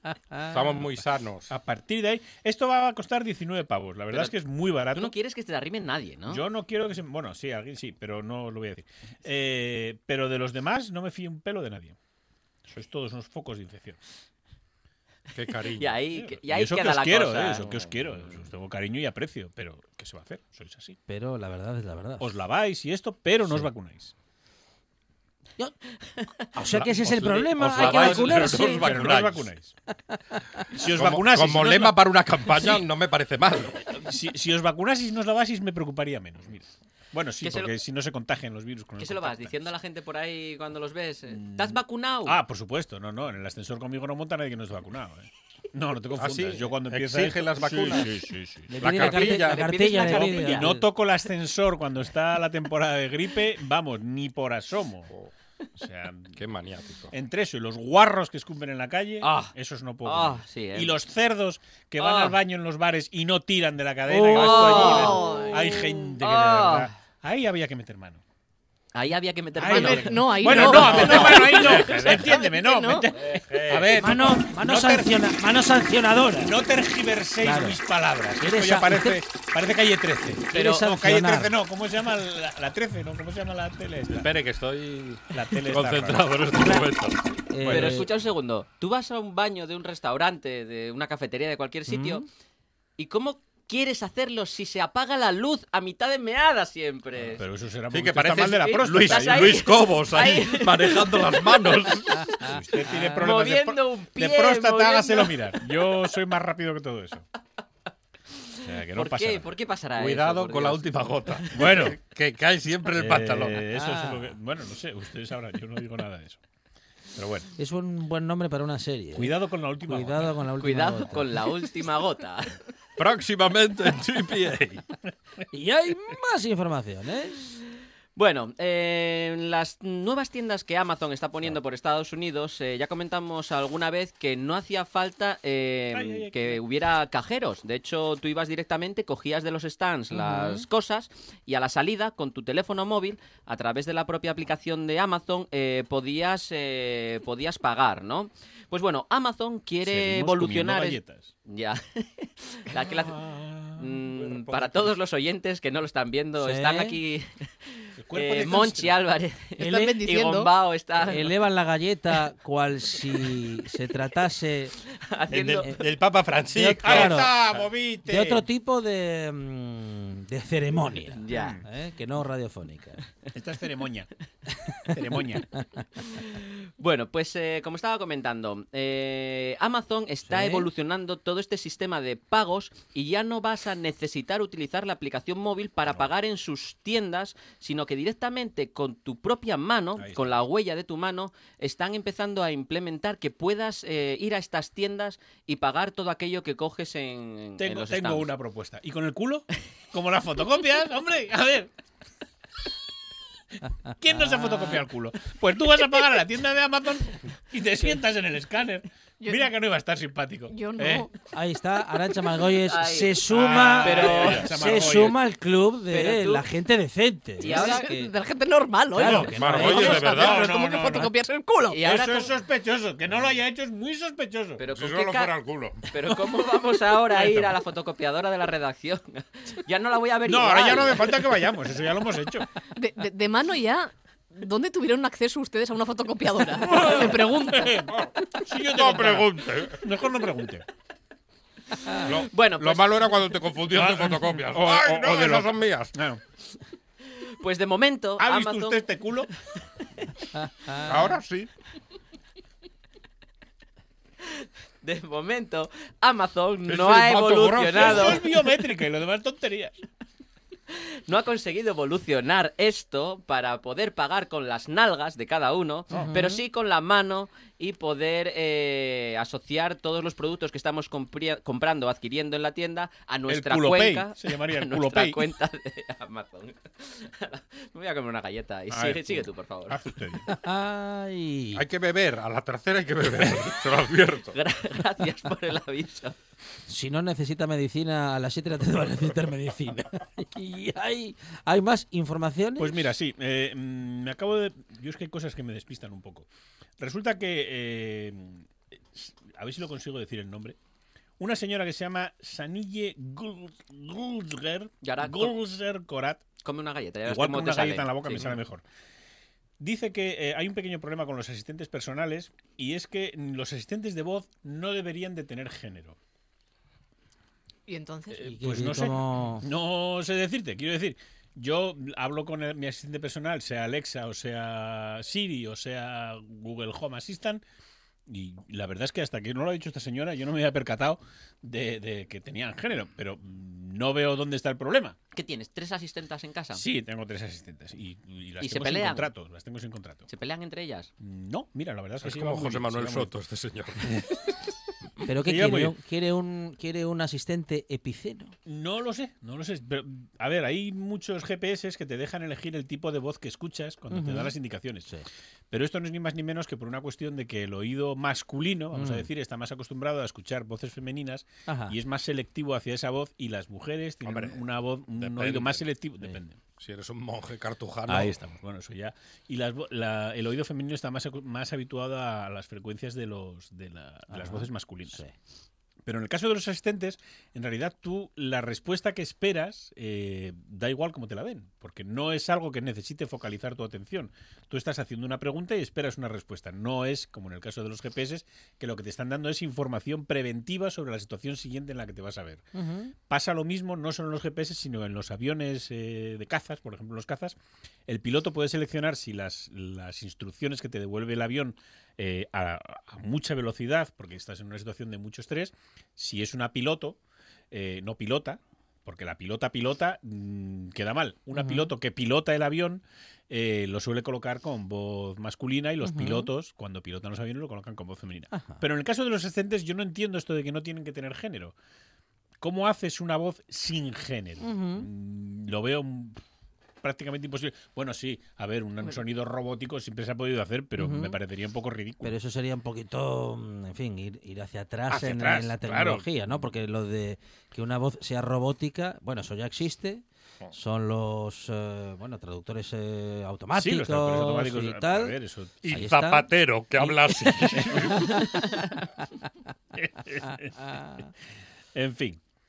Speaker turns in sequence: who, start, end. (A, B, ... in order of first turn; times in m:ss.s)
0:00.5-0:01.5 A
0:01.5-0:05.1 B
0:04.9-0:06.4 C
0:06.3-0:12.0 B
0:12.7-0:14.0 B
0:15.3-0:16.0 A
0:15.8-0:17.8 C
0:16.1-0:21.0 B
0:21.1-0:22.3 D
0:22.2-0:24.1 B
0:26.5-0:29.0 D
0:26.6-0:29.5 A
0:27.1-0:29.7 B
0:30.7-0:32.8 B
0:30.9-0:33.9 A
0:33.9-0:39.7 B
0:37.4-0:37.7 C
0:39.0-0:42.4 C
0:41.3-0:49.1 B
0:46.2-0:48.2 A
0:48.7-0:50.9 D
0:48.8-0:49.7 A
0:49.0-0:50.7 C
0:49.7-0:55.1 B
0:55.8-0:56.4 B
0:56.3-0:57.1 A
0:57.1-1:08.2 B
0:59.2-0:59.5 C
1:00.0-1:01.0 C
1:02.0-1:02.4 C
1:04.1-1:05.0 D
1:04.3-1:06.9 C
1:04.7-1:05.9 E
1:08.9-1:12.3 C
1:09.6-1:15.2 B
1:09.6-1:13.1 E
1:13.5-1:14.0 A
1:13.9-1:16.6 D
1:16.4-1:24.3 B
1:17.4-1:17.8 D
1:18.4-1:19.2 D
1:20.5-1:20.9 C
1:20.5-1:21.5 D
1:24.1-1:27.2 A
1:25.3-1:26.4 B
1:27.5-1:28.1 D
1:27.6-1:28.0 B
1:27.7-1:32.2 C
1:31.9-1:32.2 D
1:33.0-1:37.4 C
1:37.3-1:39.7 B
1:37.9-1:42.4 A
1:38.4-1:41.9 C
1:42.4-1:47.2 B
1:43.2-1:45.6 C
1:48.4-1:51.5 C
1:48.6-1:49.5 B
1:50.0-1:53.6 A
1:51.5-1:52.0 B
1:52.9-1:56.4 B
1:53.8-1:54.2 D
1:57.1-1:57.5 B
1:57.6-2:01.4 D
1:59.1-2:00.4 B
2:00.6-2:02.6 C
2:03.0-2:04.8 A
2:05.5-2:07.5 D
2:08.2-2:33.2 C
2:15.9-2:16.6 B
2:20.1-2:20.6 D
2:29.8-2:31.3 B
2:32.7-2:33.9 B
2:33.8-2:41.3 C
2:34.2-2:34.8 A
2:36.4-2:37.0 D
2:38.0-2:39.0 B
2:39.6-2:40.0 D
2:39.6-2:40.5 E
2:41.0-2:44.7 D
2:44.9-2:45.7 C
2:45.3-2:47.4 A
2:46.5-2:47.3 D
2:46.8-2:48.4 B
2:48.0-2:53.0 D
2:51.2-2:51.6 C
2:51.3-2:51.6 B
2:53.3-2:54.1 B
2:54.8-2:55.5 B
2:56.0-3:18.3 C
3:00.2-3:00.7 D
3:10.0-3:10.4 B
3:17.6-3:21.7 B
3:23.9-3:31.1 B
3:24.1-3:24.8 D
3:29.2-3:29.5 E
3:30.5-3:31.1 E
3:31.3-3:38.1 D
3:32.6-3:33.2 C
3:33.2-3:35.2 B
3:33.8-3:34.5 C
3:35.9-3:36.4 C
3:37.4-3:37.9 C
3:37.5-3:41.8 E
3:38.9-3:40.0 D
3:39.0-3:41.1 B
3:39.2-3:40.5 A
3:41.7-3:42.3 C
3:41.8-3:44.6 B
3:44.6-3:45.3 C
3:44.7-3:45.9 A
3:45.9-3:51.2 C
3:47.1-3:47.5 B
3:50.2-3:52.5 B
3:52.7-3:57.8 E
3:56.6-4:00.6 B
3:58.0-3:59.8 A
4:02.0-4:05.9 A
4:02.1-4:03.2 C
4:03.7-4:06.2 B
4:07.3-4:08.9 C
4:08.2-4:09.3 B
4:10.8-4:11.5 A
4:14.4-4:18.3 C
4:16.6-4:18.2 A
4:17.7-4:19.8 B
4:20.7-4:39.8 C
4:25.9-4:26.4 D
4:33.3-4:35.3 B
4:38.7-4:40.3 B
4:40.3-4:41.6 D
4:41.5-4:44.4 A
4:44.3-4:46.1 C
4:46.7-4:52.8 D
4:52.6-4:56.2 B
4:56.8-5:00.6 B
5:01.2-5:06.2 B
5:04.8-5:05.3 C
5:06.4-5:08.4 C
5:07.0-5:08.6 B
5:09.6-5:16.0 B
5:17.7-5:18.4 E
5:18.2-5:27.4 B
5:18.2-5:19.4 D
5:28.1-5:35.0 B
5:35.1-5:36.6 C
5:36.5-5:40.0 B
5:38.4-5:39.1 C
5:40.1-5:40.9 C
5:41.0-5:43.1 B
5:42.0-5:44.0 A
5:43.8-5:44.2 B
5:45.0-5:48.3 D
5:45.2-5:45.7 B
5:48.4-5:54.9 B
5:53.9-5:54.3 D
5:55.5-6:06.4 B
5:58.7-5:59.1 D
6:01.5-6:01.8 D
6:04.0-6:04.4 A
6:05.0-6:05.6 A
6:06.6-6:08.2 A
6:07.9-6:15.0 B
6:14.1-6:15.1 D
6:15.8-6:32.4 B
6:32.5-6:32.9 D
6:33.1-6:37.4 B
6:37.9-6:47.0 B
6:47.5-7:01.5 B
6:51.3-6:51.7 D
6:55.8-6:56.3 D
6:58.3-6:58.6 D
7:02.4-7:06.2 B
7:04.4-7:04.9 D
7:06.8-7:12.1 B
7:10.8-7:11.2 D
7:12.0-7:25.2 D
7:14.9-7:16.1 B
7:23.5-7:25.7 B
7:25.6-7:28.1 A
7:25.7-7:28.3 D
7:27.5-7:28.6 B
7:29.7-7:31.1 B
7:30.6-7:31.1 D
7:31.7-7:32.2 B